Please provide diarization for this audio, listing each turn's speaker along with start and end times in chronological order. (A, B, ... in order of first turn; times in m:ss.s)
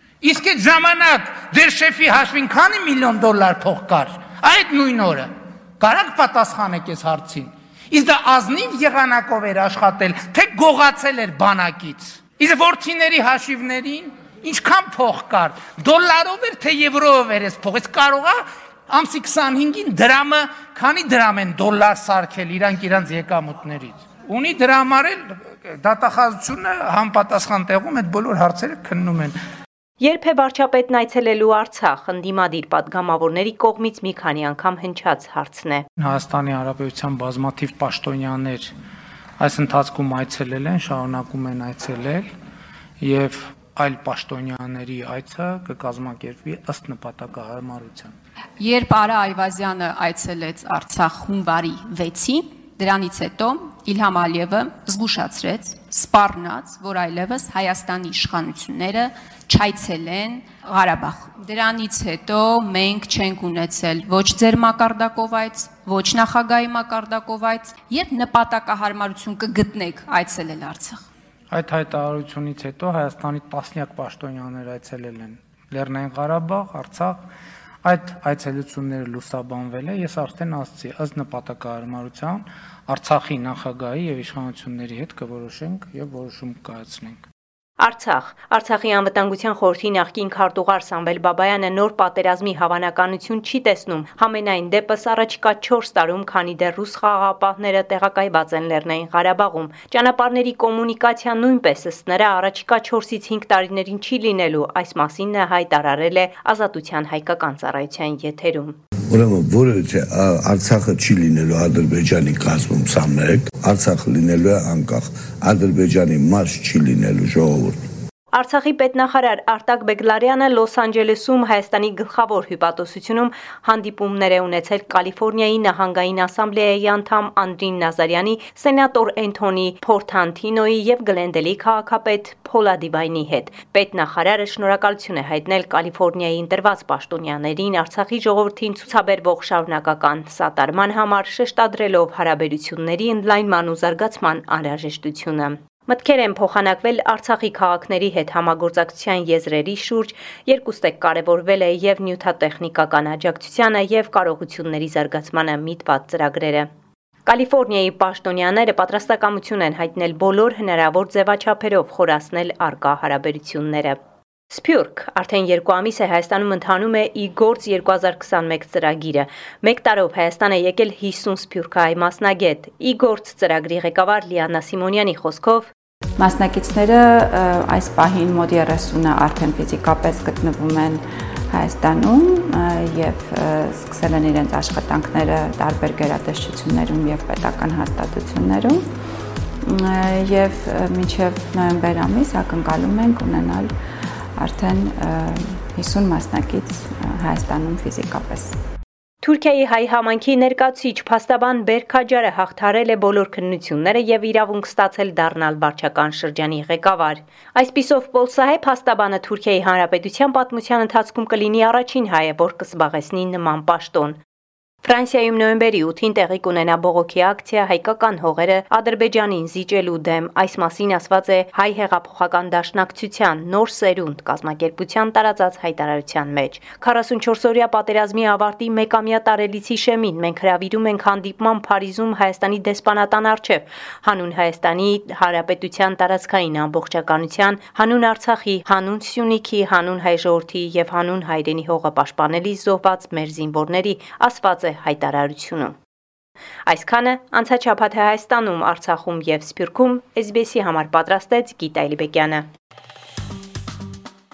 0:00.2-0:29.4 A
0:30.0-0:35.8 B
0:36.0-0:38.7 A
0:39.4-0:42.3 A
0:43.0-0:48.1 A
0:48.6-1:11.0 C
1:11.5-1:17.3 A
1:17.8-1:27.2 A
1:27.8-1:48.8 B
1:49.1-1:57.8 D
1:58.3-2:36.7 B
2:37.3-2:44.0 B
2:44.5-2:55.7 B
2:56.2-3:08.8 E
3:09.6-3:13.7 E
3:14.4-3:18.6 E
3:19.2-3:34.2 B
3:34.8-4:05.8 B
4:06.7-4:12.5 B